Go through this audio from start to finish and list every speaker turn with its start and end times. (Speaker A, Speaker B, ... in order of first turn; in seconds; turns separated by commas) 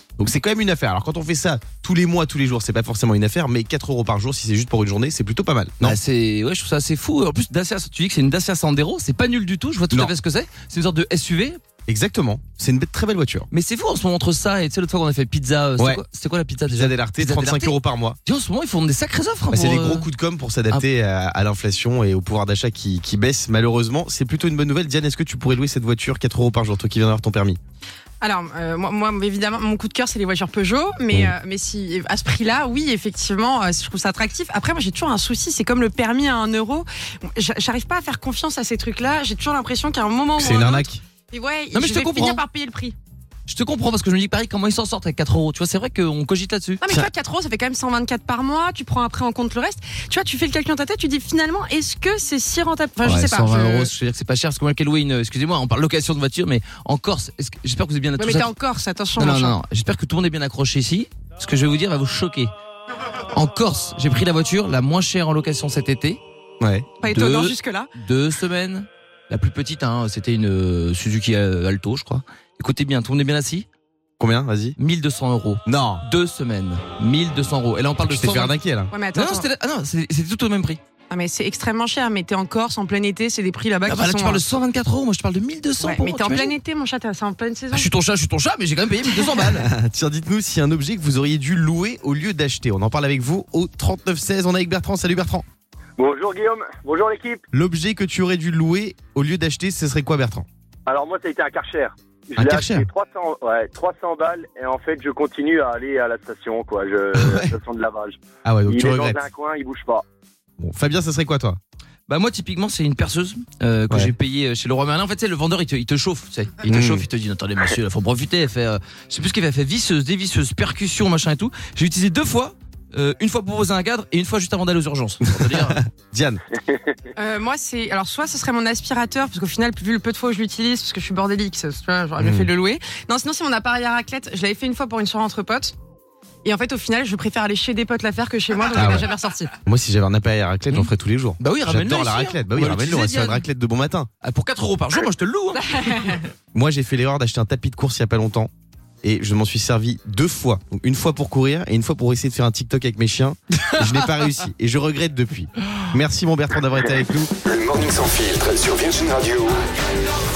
Speaker A: 0.2-6.0, Speaker B: 5.8-11.6, Speaker A: 11.9-13.5, Speaker B: 13.5-20.1, Speaker A: 15.8-16.0, Speaker A: 16.7-18.2, Speaker A: 19.5-27.6, Speaker C: 28.2-43.0, Speaker A: 40.4-41.0, Speaker B: 41.7-42.4, Speaker B: 43.5-46.8, Speaker C: 46.8-53.9, Speaker B: 53.0-58.5, Speaker C: 58.2-59.6, Speaker B: 59.2-62.5, Speaker B: 63.3-66.2, Speaker A: 66.6-66.9, Speaker C: 67.0-67.9, Speaker B: 67.0-73.7, Speaker A: 74.2-74.8, Speaker B: 74.8-78.5, Speaker A: 75.7-76.0, Speaker A: 78.0-78.9, Speaker C: 78.9-79.5, Speaker B: 79.1-80.8, Speaker C: 81.1-84.4, Speaker B: 83.9-86.5, Speaker C: 85.8-87.9, Speaker B: 87.7-89.7, Speaker A: 89.4-95.5, Speaker D: 96.0-97.4, Speaker A: 97.5-100.5, Speaker D: 100.9-110.0, Speaker A: 102.4-102.9, Speaker A: 107.2-107.5, Speaker A: 108.4-109.2, Speaker A: 110.6-111.6, Speaker B: 112.1-125.8, Speaker A: 116.7-117.1, Speaker A: 126.0-126.4, Speaker D: 126.7-127.0, Speaker C: 127.2-135.8, Speaker A: 132.2-132.5, Speaker C: 136.4-139.5, Speaker A: 138.7-139.1, Speaker A: 139.6-144.1, Speaker B: 140.7-143.4, Speaker B: 144.2-146.3, Speaker A: 146.5-148.5, Speaker A: 149.0-157.3, Speaker E: 157.4-159.6